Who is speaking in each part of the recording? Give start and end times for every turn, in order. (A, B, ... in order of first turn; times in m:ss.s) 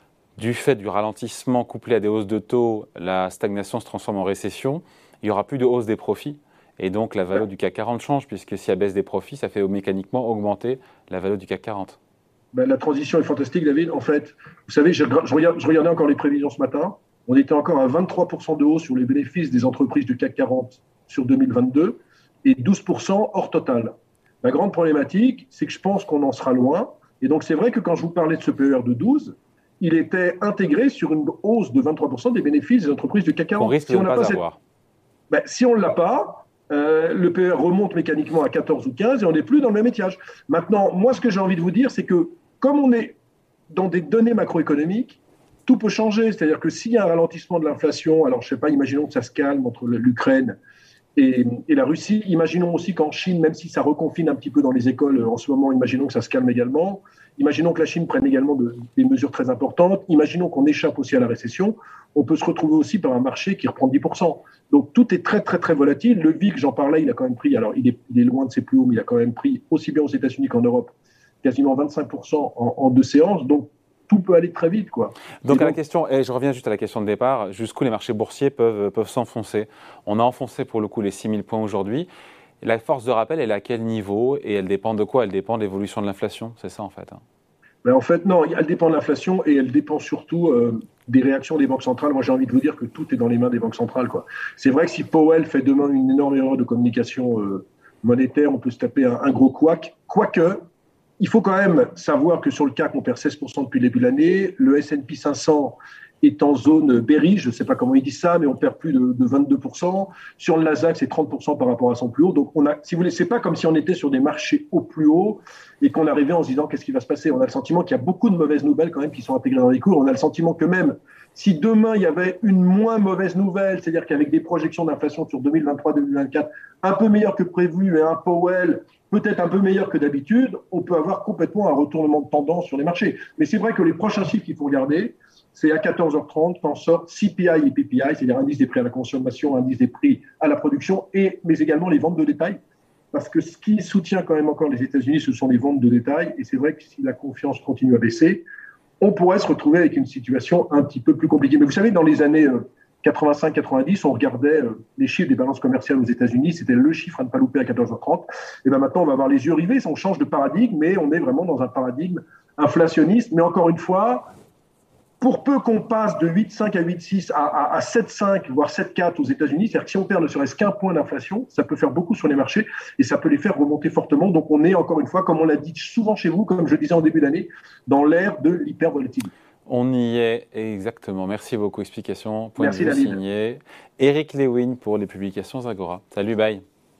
0:00.4-0:12.0 A
0:12.5-0:34.4 B
0:33.6-0:34.6 A
0:35.3-0:43.2 B
0:43.7-0:50.6 B
0:51.2-1:15.8 B
1:15.4-1:22.1 A
1:22.6-1:27.2 A
1:27.8-1:40.6 B
1:41.2-2:22.6 B
2:23.1-2:28.4 B
2:29.0-2:44.3 B
2:45.2-2:59.3 B
2:59.7-3:06.6 A
3:02.6-3:03.2 B